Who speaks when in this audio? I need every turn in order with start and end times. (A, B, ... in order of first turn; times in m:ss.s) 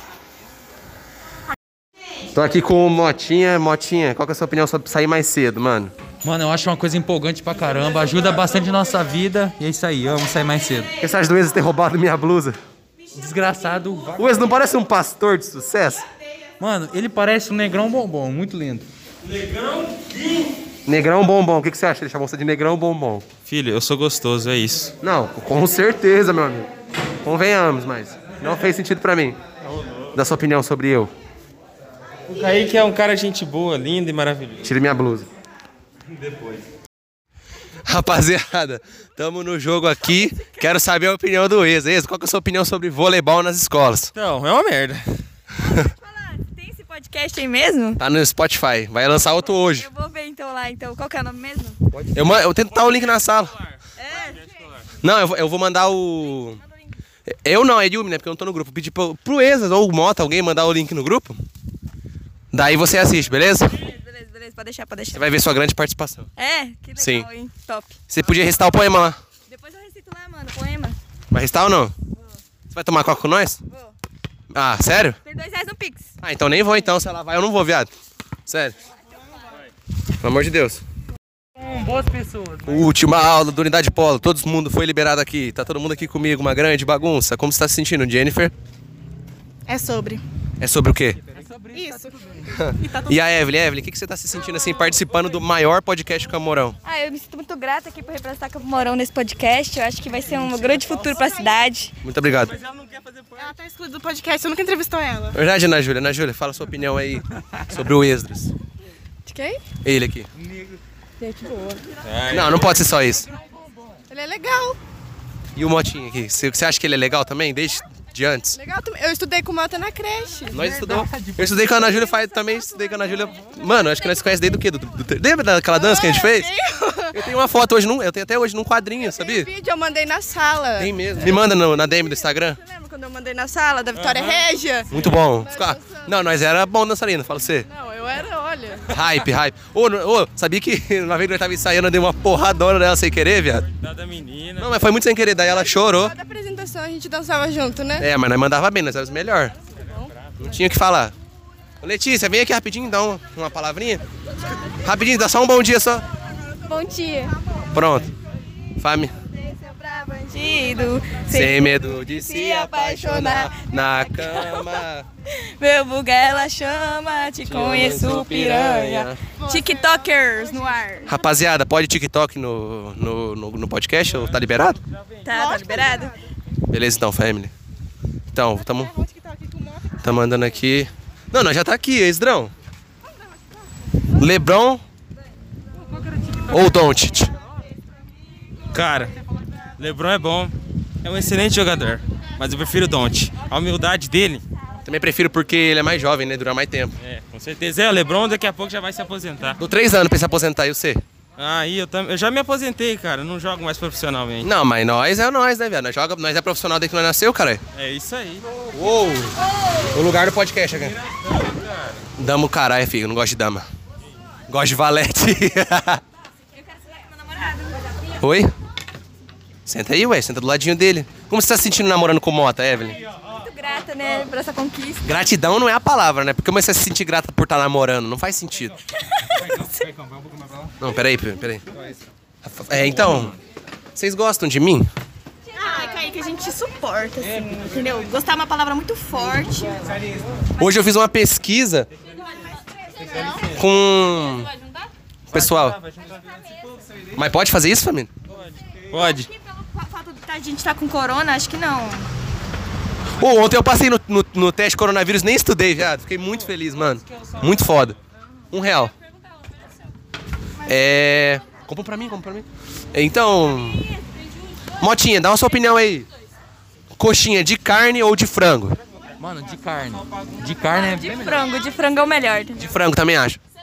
0:02.3-0:05.9 A
0:06.2-0:10.9 B
0:11.0-0:12.6 A
0:13.1-0:14.4 B
0:14.2-0:16.0 A
0:16.6-0:18.9 B
0:19.6-0:20.1 C
0:20.8-0:23.2 A
0:23.4-0:24.9 C
0:25.0-0:26.7 A
0:27.2-0:29.4 A
0:29.7-0:30.0 C
0:30.1-0:31.1 A
0:32.3-0:34.7 C
0:34.6-0:35.3 A
0:36.3-0:36.6 C
0:37.8-0:44.1 A
0:44.1-0:45.2 C
0:45.7-0:48.0 D
0:48.0-0:49.9 A
0:49.4-0:51.8 D
0:52.1-0:53.6 A
0:53.6-0:54.9 C
0:54.0-0:54.4 D
0:55.0-0:56.6 A
0:57.3-1:01.4 A
1:02.5-1:03.8 A
1:03.7-1:05.3 D
1:05.1-1:06.3 A
1:06.4-1:08.0 D
1:07.0-1:07.2 A
1:08.1-1:09.2 A
1:09.5-1:11.0 D
1:11.3-1:11.9 A
1:12.7-1:13.6 A
1:14.5-1:15.2 A
1:15.2-1:16.1 D
1:16.2-1:17.9 A
1:18.5-1:18.7 A
1:20.2-1:20.8 A
1:21.6-1:22.9 B
1:22.6-1:28.5 A
1:29.7-1:30.2 E
1:30.6-1:31.2 A
1:31.3-1:32.5 B
1:31.7-1:33.2 E
1:32.6-1:36.8 A
1:36.8-1:41.9 D
1:42.0-1:42.5 A
1:42.5-1:43.3 C
1:43.4-1:45.4 E
1:45.3-1:48.5 A
1:49.3-1:49.6 D
1:49.8-1:50.3 A
1:51.2-1:51.8 D
1:52.0-1:52.7 C
1:52.3-1:53.3 A
1:54.1-1:54.8 E
1:55.6-1:58.6 A
1:58.5-2:00.5 E
2:00.5-2:06.5 A
2:00.5-2:01.7 B
2:01.9-2:03.5 E
2:05.7-2:07.2 E
2:07.1-2:09.5 A
2:09.0-2:11.4 E
2:10.8-2:12.6 A
2:11.9-2:16.1 E
2:13.9-2:14.4 C
2:14.9-2:17.7 A
2:17.6-2:18.8 E
2:18.9-2:23.6 A
2:23.8-2:24.7 C
2:24.6-2:26.1 A
2:25.4-2:28.0 E
2:28.0-2:29.6 A
2:30.4-2:31.1 A
2:31.8-2:34.0 A
2:34.8-2:36.0 A
2:36.7-2:37.3 D
2:37.7-2:38.1 A
2:38.8-2:39.1 A
2:39.7-2:40.2 E
2:40.2-2:44.8 D
2:41.3-2:45.0 A
2:45.4-2:51.1 D
2:47.4-2:49.2 A
2:49.4-2:51.1 E
2:51.0-2:54.8 A
2:55.2-2:56.1 D
2:55.3-2:56.2 E
2:56.7-2:57.5 A
2:58.3-2:58.9 A
2:58.5-3:00.1 E
3:00.0-3:02.5 A
3:03.0-3:03.5 E
3:04.2-3:04.8 A
3:06.5-3:07.3 A
3:08.7-3:09.1 C
3:09.8-3:14.4 C
3:14.8-3:16.9 A
3:17.0-3:19.6 C
3:19.6-3:21.0 A
3:21.4-3:24.5 C
3:24.4-3:27.6 A
3:27.7-3:28.4 C
3:28.7-3:29.3 A
3:29.9-3:31.0 A
3:31.1-3:32.0 C
3:32.2-3:33.6 A
3:34.5-3:36.0 A
3:38.2-3:38.5 A
3:39.6-3:43.0 A
3:43.3-3:45.1 D
3:45.0-3:48.8 A
3:50.8-3:51.6 A
3:52.4-3:53.4 A
3:54.0-3:54.9 A
3:55.5-3:59.9 D
3:55.6-3:56.0 E
4:00.6-4:01.9 A
4:02.9-4:03.5 E
4:03.0-4:03.6 C
4:03.5-4:04.5 A
4:05.3-4:06.3 C
4:05.3-4:05.8 A
4:07.1-4:08.1 A
4:08.3-4:09.3 C
4:09.3-4:12.1 D
4:13.2-4:18.0 A
4:18.5-4:18.9 A
4:20.6-4:23.9 A
4:24.8-4:26.1 A
4:27.0-4:28.8 A
4:29.2-4:31.5 B
4:30.7-4:32.6 D
4:32.6-4:33.4 A